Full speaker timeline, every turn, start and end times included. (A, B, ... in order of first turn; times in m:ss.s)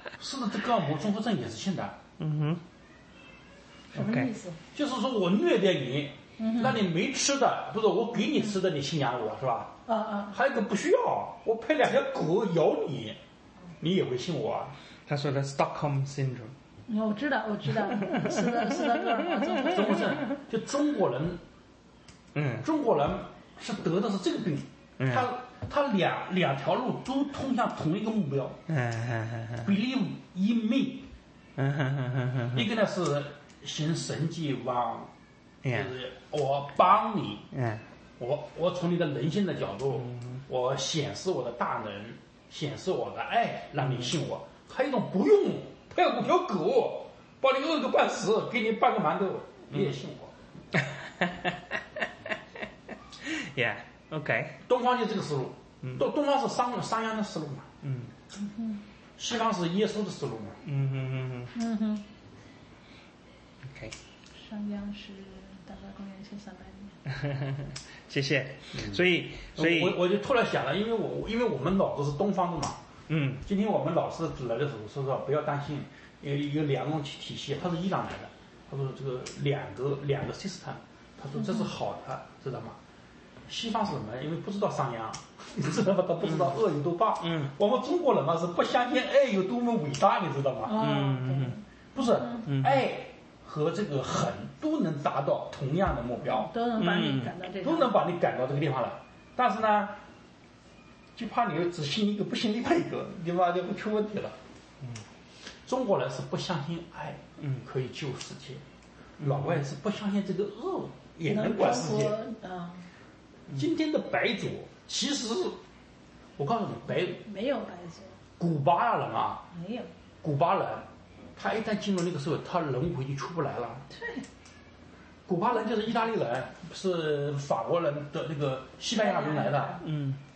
0:00.2-0:02.0 A
0:02.2-0:02.6 B
0:03.9-0:04.6 C
0:03.9-0:04.3 B
0:04.7-0:09.8 A
0:06.4-0:06.8 C
0:09.9-0:10.4 C
0:10.3-0:13.2 A
0:13.8-0:14.7 A
0:15.1-0:16.5 B
0:16.9-0:20.2 C
0:19.6-0:21.4 A
0:22.3-0:22.7 B
0:22.6-0:28.6 A
0:25.0-0:25.3 B
0:28.7-0:29.7 B
0:29.6-0:31.1 A
0:31.6-0:32.7 B
0:32.5-0:35.1 A
0:35.6-0:35.9 B
0:35.7-0:37.5 A
0:37.5-0:37.8 B
0:38.2-0:50.3 A
0:40.0-0:40.4 B
0:43.8-0:44.1 B
0:50.7-0:52.0 B
0:53.2-0:54.6 B
0:54.6-0:57.7 A
0:57.8-0:58.1 B
0:58.3-0:58.8 C
0:59.2-1:00.6 A
1:00.6-1:01.5 B
1:01.5-1:02.0 C
1:03.6-1:03.9 B
1:04.3-1:07.0 C
1:07.1-1:10.0 B
1:08.7-1:12.8 A
1:13.1-1:13.4 B
1:13.4-1:22.8 A
1:23.5-1:30.9 A
1:26.2-1:26.5 B
1:27.2-1:27.5 B
1:30.6-1:31.6 C
1:30.7-1:31.6 B
1:31.9-1:36.5 A
1:32.4-1:32.8 B
1:36.3-1:37.9 C
1:36.8-1:37.3 B
1:37.6-1:40.0 A
1:41.2-1:44.4 A
1:45.6-1:48.6 A
1:49.2-1:49.7 B
1:49.2-1:52.2 A
1:51.3-1:52.9 C
1:53.5-1:55.6 A
1:56.4-1:57.2 A
1:57.1-1:58.2 C
1:58.4-1:59.4 A
1:59.5-1:59.9 C
2:00.2-2:03.8 A
2:03.9-2:04.2 C
2:05.3-2:09.8 A
2:08.9-2:09.8 C
2:09.8-2:10.2 B